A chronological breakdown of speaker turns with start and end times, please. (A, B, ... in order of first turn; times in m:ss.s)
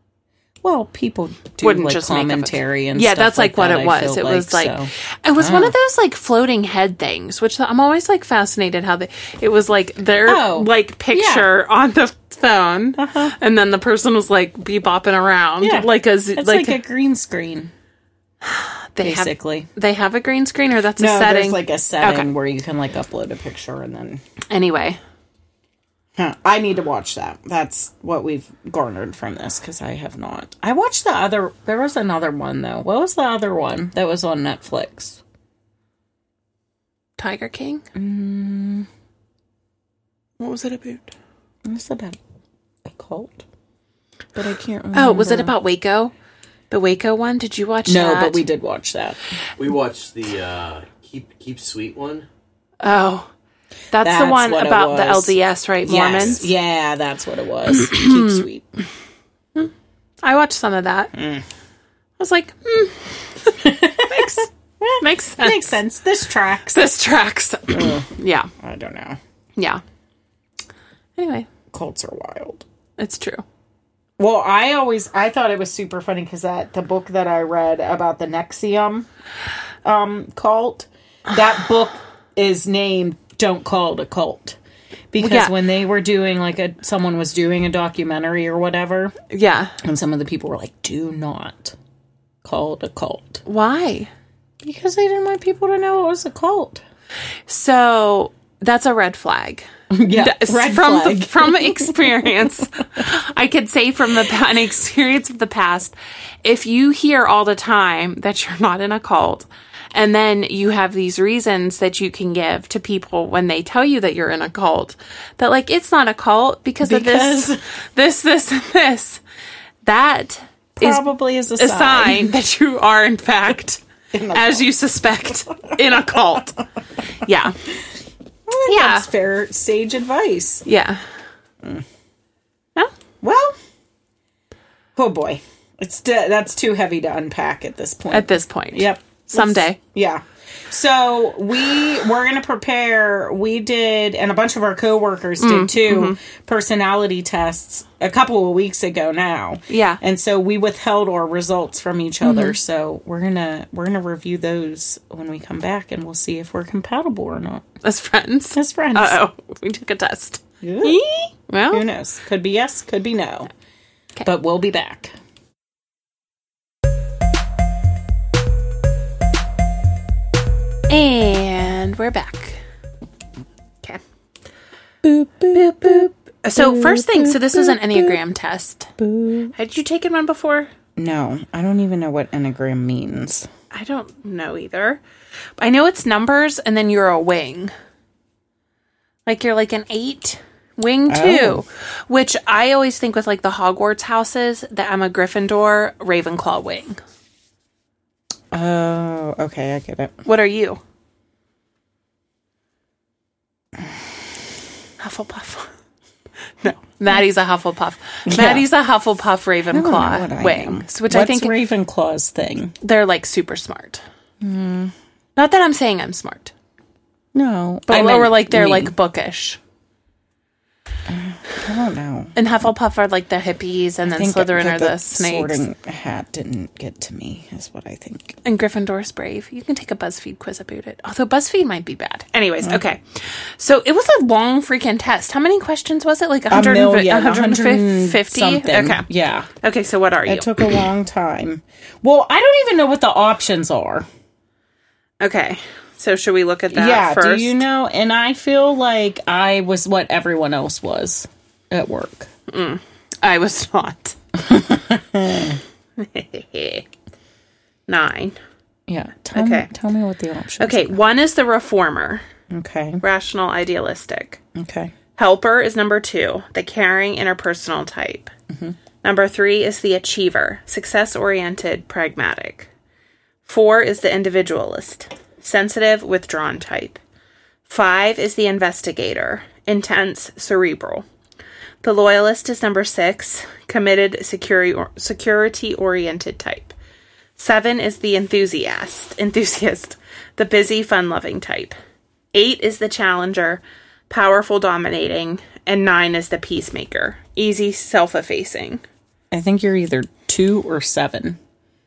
0:00.6-0:05.8 A
0:01.6-0:16.8 B
0:10.3-0:11.5 A
0:13.0-0:13.4 A
0:15.6-0:17.7 A
0:18.4-0:22.3 B
0:19.0-0:19.7 A
0:21.0-0:24.2 A
0:24.5-0:25.0 B
0:26.2-0:35.2 A
0:37.2-0:37.8 B
0:37.9-0:38.9 A
0:40.4-0:41.1 B
0:41.6-0:42.2 A
0:42.8-0:43.4 A
0:44.4-0:45.5 A
0:44.9-0:46.1 B
0:46.7-0:48.4 B
0:47.9-0:49.2 A
0:49.6-0:52.2 C
0:52.8-0:53.3 B
0:53.9-0:56.5 B
0:54.0-0:58.7 A
0:57.8-0:58.4 B
1:00.2-1:01.1 B
1:01.1-1:01.4 A
1:02.2-1:04.5 B
1:03.6-1:06.9 A
1:05.0-1:05.7 B
1:06.7-1:08.5 B
1:07.7-1:08.1 A
1:08.6-1:09.2 A
1:09.6-1:09.8 B
1:11.2-1:11.5 B
1:11.7-1:12.6 A
1:13.0-1:13.4 B
1:14.2-1:19.1 A
1:19.8-1:24.6 A
1:25.1-1:29.1 A
1:25.2-1:25.5 B
1:29.3-1:29.8 B
1:29.8-1:31.8 A
1:32.4-1:33.4 A
1:33.4-1:34.1 B
1:34.6-1:36.8 A
1:37.5-1:59.2 B
1:39.9-1:42.3 A
1:56.8-1:57.6 A
1:59.8-2:01.0 B
2:00.8-2:02.3 A
2:01.6-2:06.6 B
2:04.1-2:04.7 A
2:05.5-2:06.4 A
2:07.2-2:07.6 B
2:08.5-2:10.6 A
2:08.7-2:09.1 B
2:10.6-2:11.0 B
2:13.2-2:13.6 A
2:15.0-2:37.6 A
2:18.1-2:19.8 B
2:25.4-2:26.2 B
2:29.7-2:30.0 B
2:32.2-2:32.6 B
2:37.8-2:41.9 B
2:38.6-2:39.2 A
2:40.6-2:41.0 A
2:41.7-2:43.5 A
2:44.2-2:45.1 A
2:50.9-2:52.6 B
2:55.0-2:58.2 A
2:55.5-2:58.9 B
2:59.0-2:59.5 A
2:59.5-3:00.7 B
3:01.0-3:03.5 A
3:03.7-3:05.0 B
3:05.6-3:07.7 B
3:09.3-3:17.0 B
3:11.1-3:11.6 A
3:18.5-3:20.1 A
3:20.2-3:20.8 B
3:25.0-3:25.7 B
3:26.6-3:31.5 B
3:28.3-3:28.7 A
3:29.7-3:32.7 A
3:32.8-3:34.0 B
3:34.4-3:34.9 A
3:35.4-3:36.5 B
3:37.3-3:38.9 A
3:37.9-3:39.6 B
3:41.1-3:42.3 A
3:42.4-3:45.6 B
3:44.1-3:48.4 A
3:48.4-3:59.1 B
3:56.5-3:59.5 A
3:59.6-4:00.8 B
4:00.3-4:04.1 A
4:05.2-4:07.6 B
4:06.7-4:12.3 A
4:12.5-4:14.2 B
4:14.4-4:15.6 A
4:16.0-4:16.8 B
4:17.9-4:18.4 B
4:18.9-4:21.0 A
4:19.4-4:19.7 B
4:20.6-4:22.2 B
4:22.5-4:23.0 A
4:23.0-4:24.4 B
4:24.6-4:24.9 A
4:25.2-4:28.3 B
4:28.5-4:28.8 A
4:29.0-4:32.7 B
4:33.4-4:37.0 B
4:37.7-4:41.0 B
4:41.8-4:46.8 B
4:47.4-4:51.8 B
4:52.3-4:58.8 B
4:59.3-5:01.4 A